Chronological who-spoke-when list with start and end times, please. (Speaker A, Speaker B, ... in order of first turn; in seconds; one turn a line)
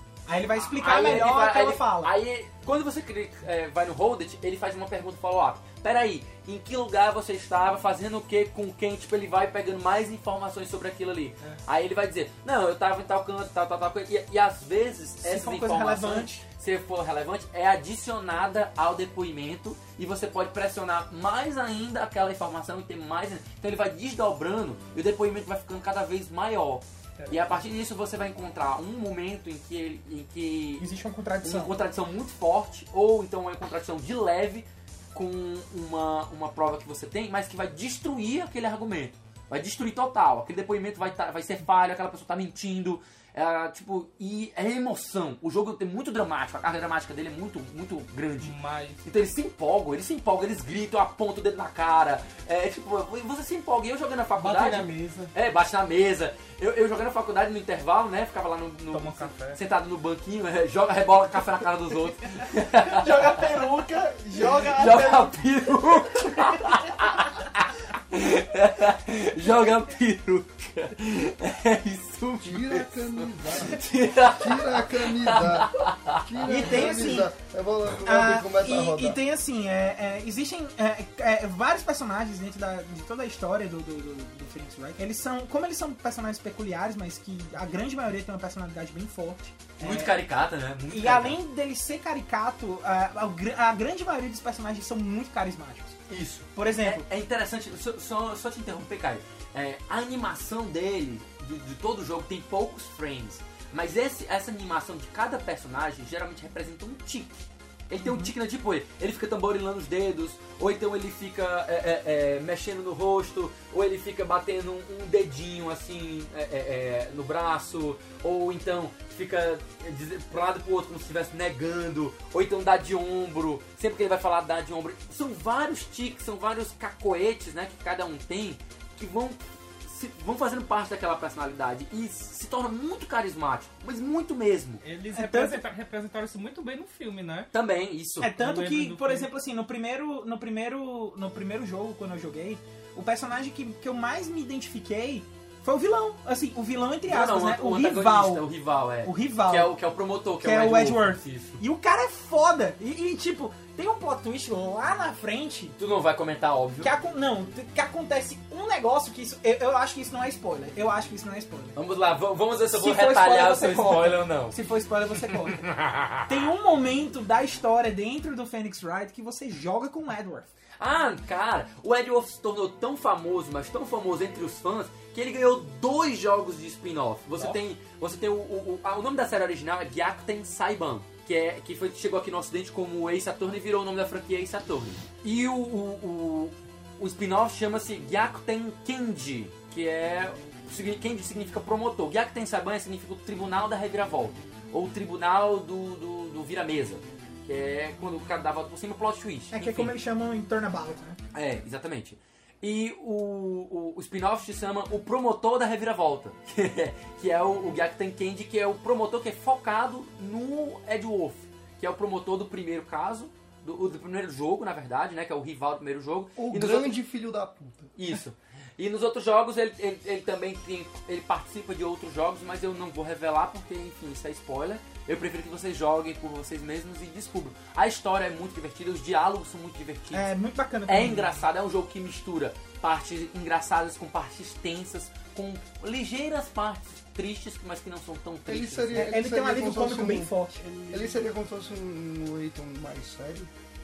Speaker A: 0.3-2.1
Speaker B: 0.6-30.9
Speaker A: 15.2-16.4
Speaker C: 27.2-27.6
Speaker A: 30.8-31.7
Speaker B: 31.4-48.5
Speaker C: 48.4-49.0
Speaker B: 49.0-63.4
Speaker D: 54.4-55.3
Speaker C: 58.9-59.6
Speaker D: 62.9-65.3
Speaker B: 64.3-76.9
Speaker E: 72.4-79.2
Speaker A: 76.4-77.3
Speaker A: 78.0-90.1
Speaker B: 89.8-91.4
Speaker A: 90.9-96.0
Speaker B: 96.1-134.8
Speaker A: 96.5-97.0
Speaker A: 108.0-108.3
Speaker C: 134.8-137.5
Speaker A: 135.1-135.6
Speaker B: 137.5-138.3
Speaker A: 138.2-148.4
Speaker C: 138.3-139.3
Speaker B: 147.1-151.6
Speaker A: 149.0-149.7
Speaker A: 150.4-155.8
Speaker B: 155.8-156.9
Speaker A: 156.8-161.8
Speaker B: 161.8-164.6
Speaker A: 162.7-165.6
Speaker A: 166.2-170.5
Speaker B: 170.8-199.9
Speaker A: 199.5-201.2
Speaker B: 201.3-217.0
Speaker E: 216.4-217.9
Speaker B: 217.9-230.3
Speaker A: 230.1-231.3
Speaker B: 230.9-239.1
Speaker E: 238.4-240.3
Speaker A: 238.9-240.6
Speaker E: 240.9-243.5